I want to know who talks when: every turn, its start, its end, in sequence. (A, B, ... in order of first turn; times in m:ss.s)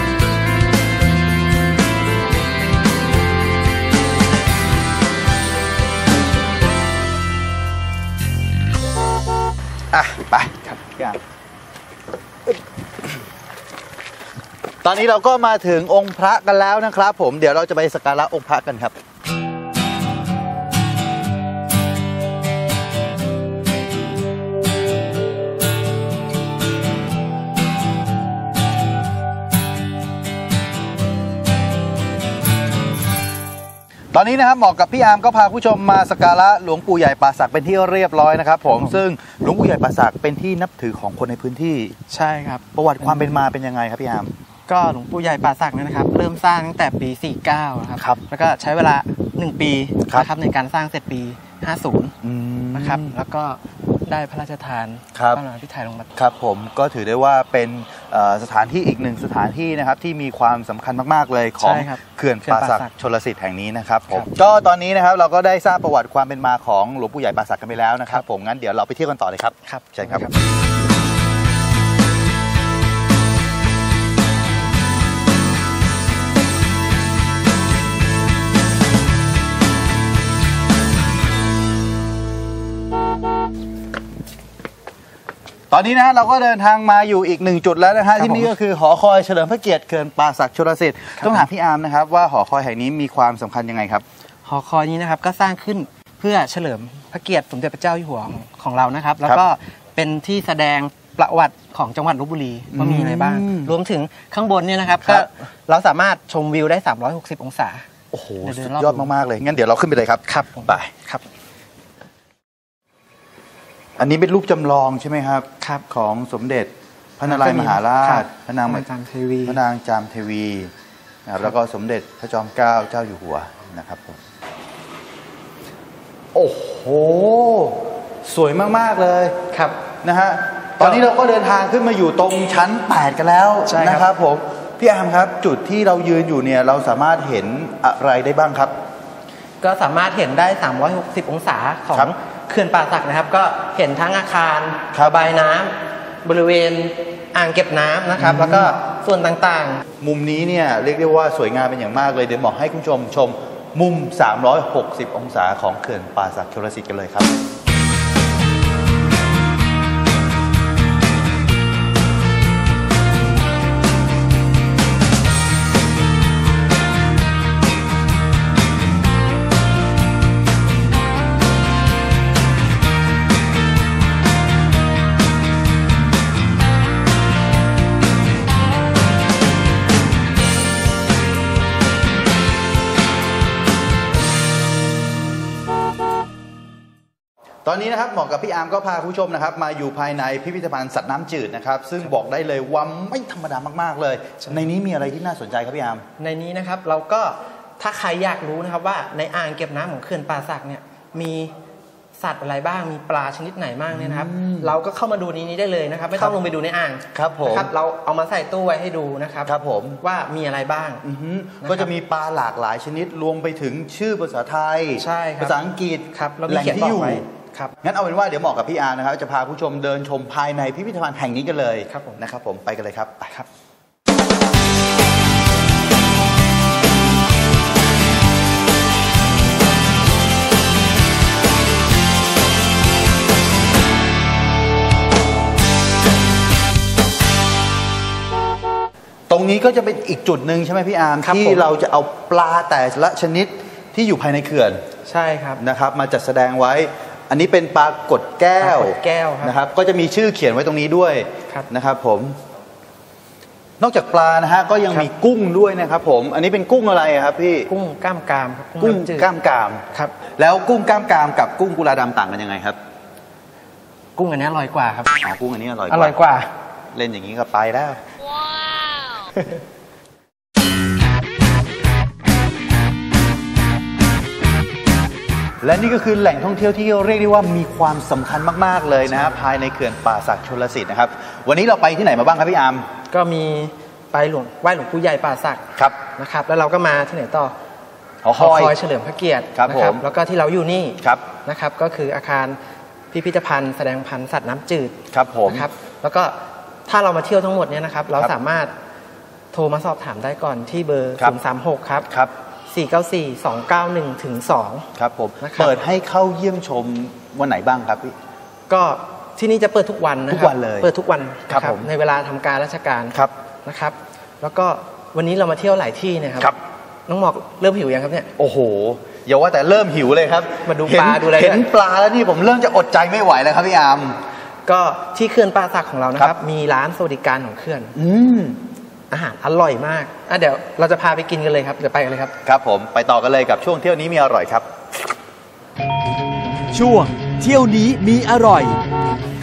0:09.9-0:11.2 A
0:14.8-0:19.0 A
0:34.1-0:42.0 A
0:42.1-0:43.3 B
0:42.7-0:44.3 A
0:44.7-0:52.1 B
0:52.2-0:53.2 A
0:52.7-0:56.1 B
0:55.1-0:55.4 A
0:56.2-1:10.3 A
1:01.6-1:02.9 B
1:09.7-1:10.3 B
1:25.7-1:34.0 A
1:28.2-1:28.5 B
1:31.2-1:31.5 B
1:34.4-1:47.9 B
1:42.7-1:43.7 A
1:45.0-1:45.3 A
1:48.1-1:50.9 A
1:48.4-1:49.1 B
1:50.3-1:51.2 B
1:54.0-1:58.8 A
1:55.6-1:55.8 B
1:57.3-1:59.6 B
1:59.4-2:00.7 A
2:01.3-2:04.2 A
2:06.3-2:09.4 A
2:09.5-2:09.8 B
2:10.0-2:18.7 A
2:13.7-2:14.1 B
2:19.6-2:29.8 B
2:24.9-2:25.3 A
2:28.2-2:28.7 A
2:30.0-2:37.3 A
3:07.6-3:16.0 A
3:16.2-3:21.5 B
3:22.2-3:31.0 B
3:23.9-3:24.8 A
3:26.1-3:26.5 A
3:27.1-3:27.7 A
3:29.5-3:30.0 A
3:31.0-3:37.3 A
3:31.6-3:31.9 B
3:35.0-3:35.6 B
3:36.1-3:37.8 B
3:37.8-3:43.3 A
3:41.9-3:42.2 B
3:59.3-4:04.8 A
4:01.2-4:01.7 B
4:05.0-4:05.6 B
4:05.6-4:12.4 A
4:08.6-4:09.6 B
4:13.8-4:17.7 A
4:17.7-4:19.3 B
4:18.8-4:19.8 A
4:20.4-4:22.8 A
4:24.2-4:25.2 B
4:25.2-4:26.3 A
4:25.9-4:26.5 B
4:26.9-4:28.0 A
4:35.6-4:42.9 A
4:43.1-4:47.6 B
4:48.2-4:48.8 A
4:48.4-4:52.6 B
4:49.6-4:50.0 A
4:53.1-4:55.0 B
4:55.1-4:55.7 A
4:55.5-4:58.7 B
4:59.5-5:02.1 B
5:02.7-5:04.9 B
5:05.0-5:08.2 A
5:05.4-5:05.8 B
5:08.7-5:16.5 B
5:10.3-5:10.9 A
5:11.5-5:11.9 A
5:17.1-5:18.3 B
5:18.4-5:24.2 A
5:20.6-5:21.7 B
5:24.7-5:27.9 B
5:28.0-5:28.6 A
5:29.1-5:32.3 B
5:32.4-5:34.7 A
5:36.7-5:38.8 C